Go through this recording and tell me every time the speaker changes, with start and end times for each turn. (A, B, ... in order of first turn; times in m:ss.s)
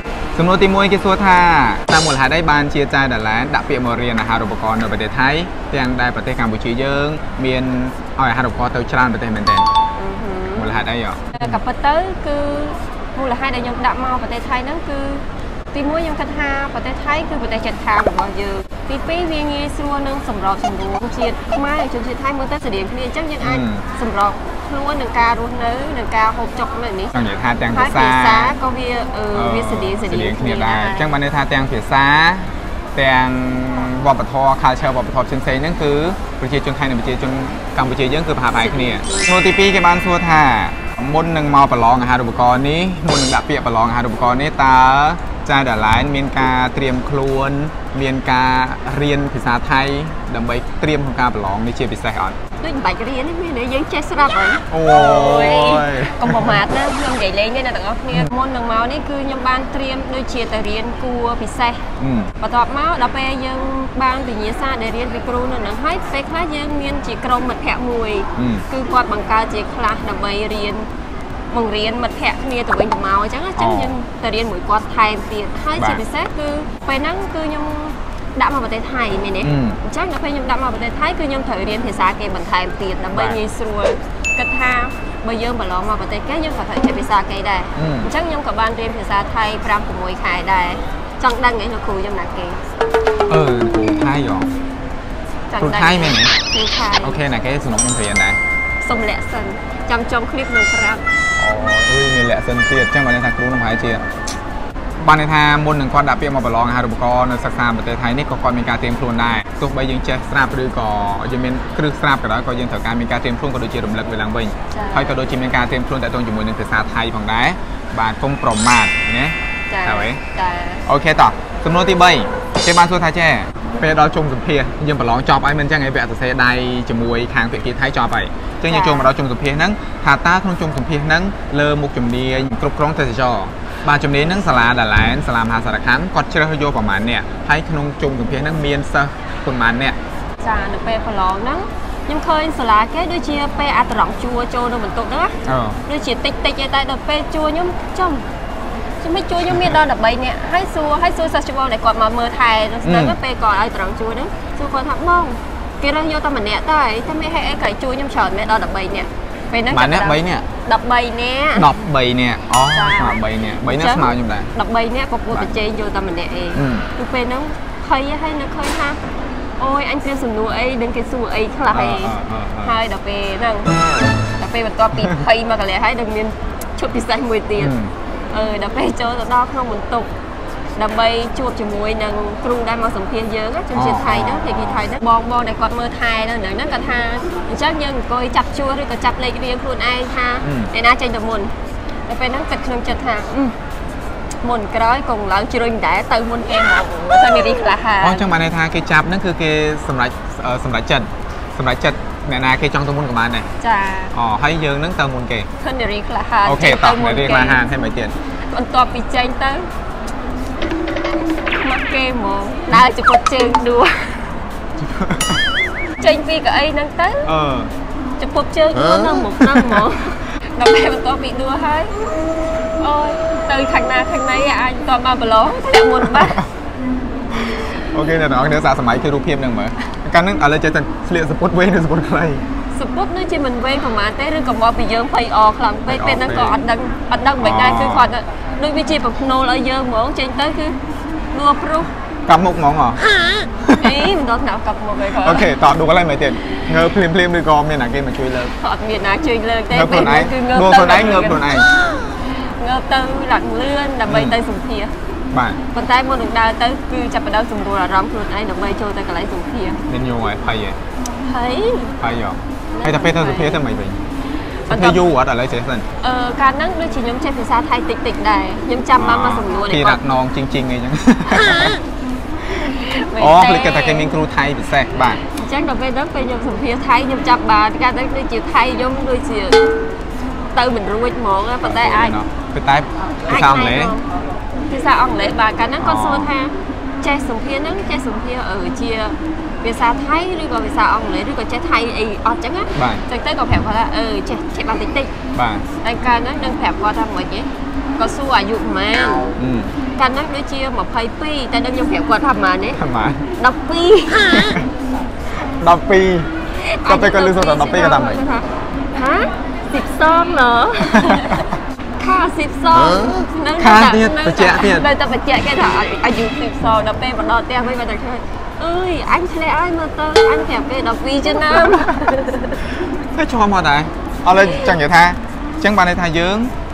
0:00.3-0:09.7 A
0:10.0-0:27.1 B
0:10.6-0:11.6 A
0:23.4-0:23.8 A
0:27.1-0:28.5 A
0:27.7-0:31.1 B
0:29.3-0:52.4 A
0:38.6-0:39.2 B
0:52.6-1:01.9 B
0:54.7-0:56.6 A
1:02.0-1:02.3 A
1:02.4-1:10.9 B
1:08.4-1:08.6 A
1:11.5-1:32.6 B
1:13.6-1:14.0 A
1:15.8-1:16.0 A
1:19.4-1:19.8 A
1:23.1-1:23.4 A
1:27.8-1:28.1 A
1:33.3-1:34.5 A
1:35.5-1:37.2 B
1:35.6-1:36.3 A
1:37.0-1:38.4 A
1:38.8-1:41.0 B
1:41.4-1:44.1 A
1:45.0-2:00.2 A
1:54.7-1:55.2 B
1:59.7-2:00.8 B
2:00.8-2:20.0 A
2:08.7-2:09.1 B
2:20.4-2:28.2 B
2:25.4-2:25.8 A
2:29.0-2:41.7 B
2:32.8-2:33.2 A
2:39.7-2:40.4 A
2:41.5-2:44.5 A
2:42.7-2:49.0 B
2:46.5-2:46.9 A
2:49.6-2:57.7 B
2:51.7-2:52.8 A
2:57.6-2:57.9 A
2:58.3-3:00.1 B
3:00.8-3:11.5 B
3:03.7-3:04.8 A
3:10.4-3:10.7 A
3:12.1-3:13.6 B
3:14.4-3:18.3 B
3:18.0-3:23.5 A
3:23.6-3:24.1 B
3:24.1-3:25.5 A
3:25.6-3:27.6 B
3:26.4-3:28.1 A
3:28.5-3:29.7 B
3:31.5-3:34.3 B
3:34.8-3:35.4 A
3:36.0-3:37.3 B
3:37.2-3:37.7 A
3:38.2-3:41.9 B
3:39.4-3:39.8 A
3:42.8-3:46.4 B
3:47.5-3:52.4 A
3:52.7-4:00.8 B
3:55.9-3:56.6 A
3:57.4-3:58.1 A
4:01.3-4:01.9 B
4:02.3-4:03.0 A
4:03.4-4:05.5 B
4:03.6-4:04.1 A
4:05.2-4:08.5 A
4:08.6-4:14.9 B
4:09.7-4:11.7 A
4:14.1-4:14.4 A
4:15.3-4:15.6 A
4:15.7-4:19.8 B
4:19.9-4:20.8 A
4:21.2-4:22.0 B
4:22.0-4:24.0 A
4:22.7-4:23.6 B
4:24.7-4:25.0 B
4:24.7-4:25.8 A
4:26.0-4:30.0 B
4:29.0-4:31.8 A
4:31.3-4:31.8 B
4:32.5-4:34.1 B
4:33.2-4:35.2 A
4:35.2-4:39.6 B
4:40.5-4:42.2 B
4:41.6-4:44.0 A
4:43.2-4:44.1 B
4:44.7-4:55.1 B
4:45.8-4:46.3 A
4:52.7-4:53.0 A
4:55.3-4:55.6 A
4:55.8-4:59.3 B
4:59.4-4:59.7 A
5:00.0-5:02.8 B
5:02.8-5:03.3 A
5:03.4-5:04.6 B
5:04.3-5:04.7 A
5:05.4-5:06.3 A
5:06.6-5:11.5 B
5:06.8-5:08.2 A
5:10.8-5:11.5 A
5:12.0-5:22.6 B
5:13.6-5:14.9 A
5:21.5-5:22.1 A
5:22.6-5:26.5 A
5:24.4-5:24.8 B